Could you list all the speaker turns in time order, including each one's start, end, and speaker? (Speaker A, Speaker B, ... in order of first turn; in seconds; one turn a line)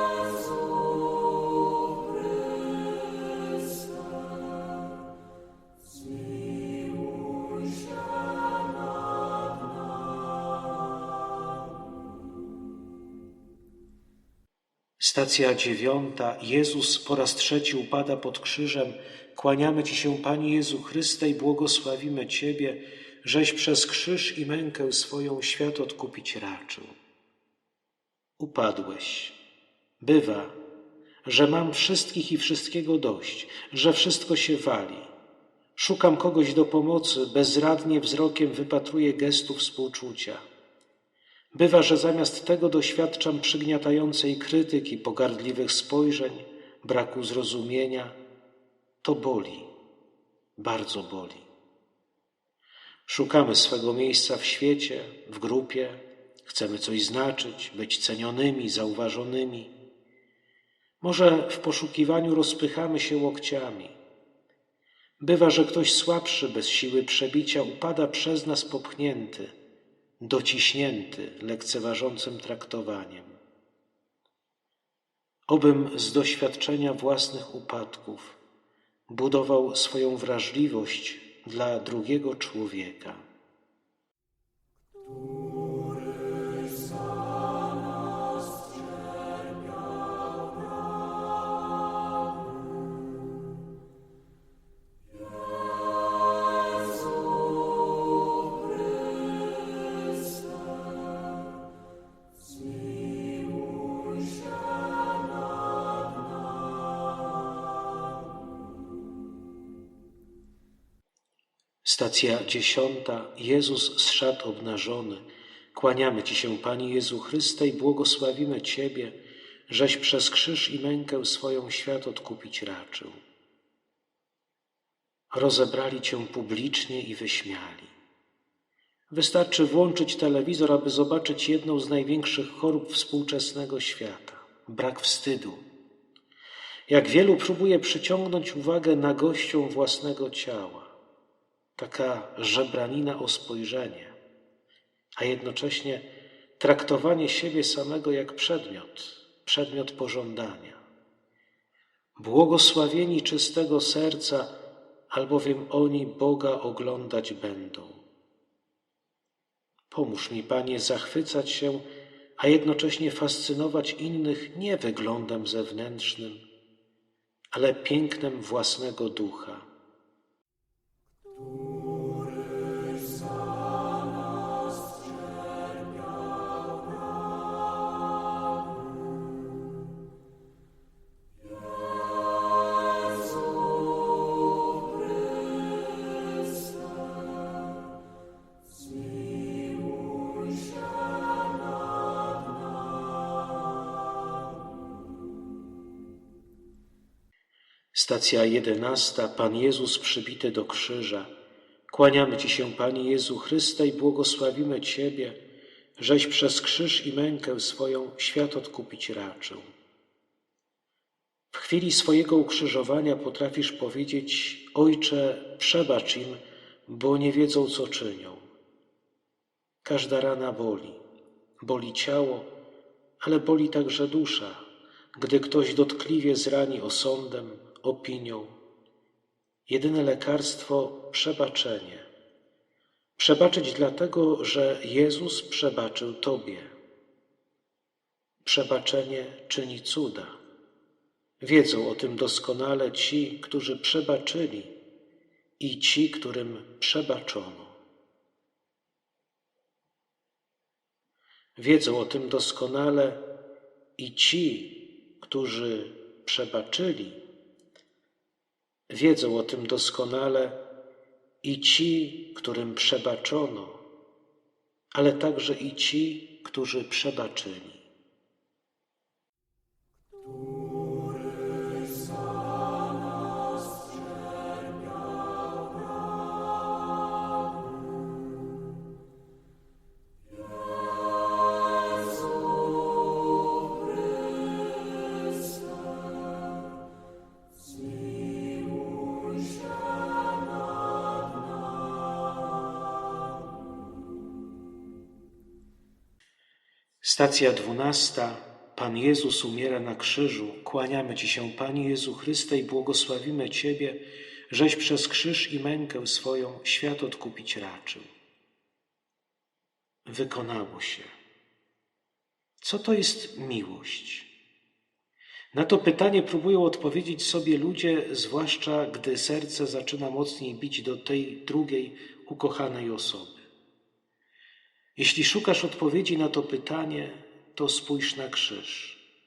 Speaker A: 15.0-27.0
Speaker A: 28.4-29.4
Speaker A: 30.0-30.6
Speaker A: 31.2-35.1
Speaker A: 35.8-40.5
Speaker A: 41.5-48.1
Speaker A: 49.0-49.7
Speaker A: 50.6-51.5
Speaker A: 53.1-59.7
Speaker A: 61.0-64.0
Speaker A: 65.2-69.5
Speaker A: 70.2-73.4
Speaker A: 75.5-78.4
Speaker A: 79.1-83.3
Speaker A: 111.8-119.2
Speaker A: 119.7-123.2
Speaker A: 125.3-128.0
Speaker A: 129.1-135.6
Speaker A: 136.9-140.9
Speaker A: 141.8-144.2
Speaker A: 145.2-146.1
Speaker A: 146.6-150.8
Speaker A: 152.2-154.5
Speaker A: 155.1-158.1
Speaker A: 159.9-161.8
Speaker A: 162.4-166.4
Speaker A: 167.5-169.7
Speaker A: 197.9-201.3
Speaker A: 201.9-205.4
Speaker A: 206.0-209.7
Speaker A: 211.5-218.5
Speaker A: 219.8-221.0
Speaker A: 221.6-222.5
Speaker A: 223.2-224.6
Speaker A: 225.2-228.6
Speaker A: 229.7-232.1
Speaker A: 233.2-236.7
Speaker A: 238.4-240.4
Speaker A: 241.4-244.7
Speaker A: 245.6-247.8
Speaker A: 251.6-253.2
Speaker A: 254.0-257.2
Speaker A: 258.9-260.6
Speaker A: 261.4-263.8
Speaker A: 264.9-267.9
Speaker A: 297.0-304.0
Speaker A: 304.5-308.1
Speaker A: 310.1-311.1
Speaker A: 312.6-314.3
Speaker A: 315.5-323.4
Speaker A: 324.9-329.0